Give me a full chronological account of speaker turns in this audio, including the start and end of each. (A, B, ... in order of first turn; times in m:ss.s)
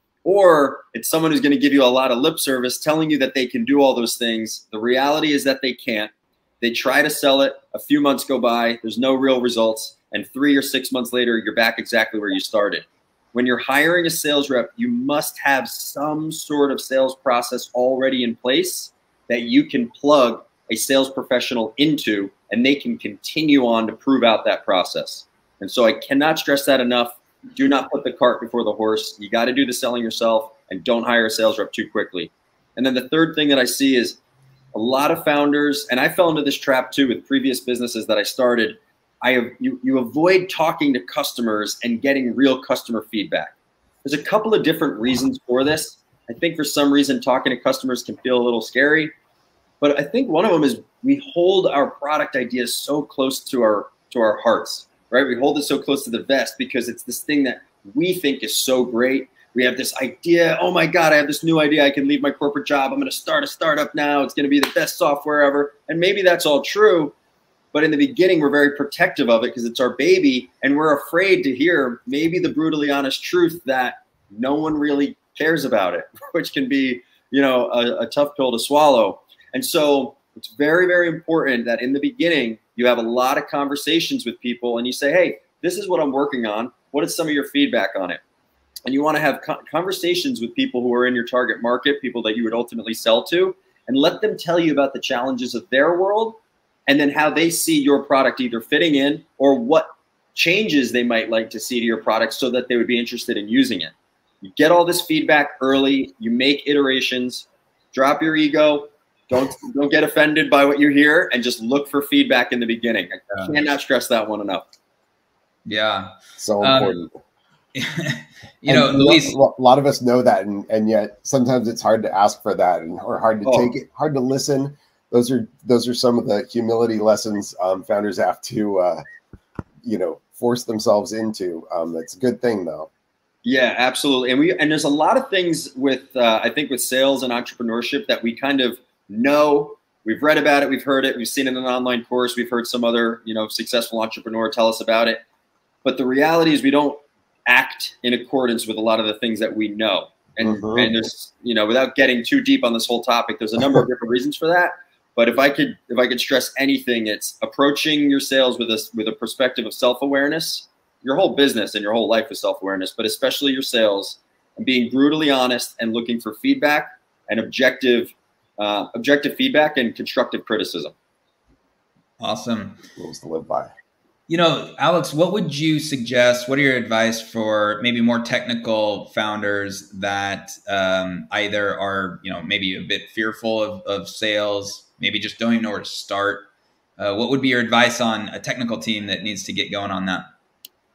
0:00.2-0:34.2 A
0:34.7-0:49.1 A
0:49.8-1:07.1 A
1:07.7-1:28.2 A
1:28.9-1:54.7 A
1:55.6-1:57.0 B
1:56.4-1:57.1 C
1:57.8-1:59.4 B
1:58.7-2:09.0 C
2:03.4-2:03.7 A
2:09.8-2:12.9 C
2:13.4-2:25.2 A
2:25.8-2:50.9 A
2:30.4-2:31.0 C
2:52.2-2:52.8 B
2:53.0-2:53.7 C
2:54.3-3:06.4 B
3:07.0-3:10.2 B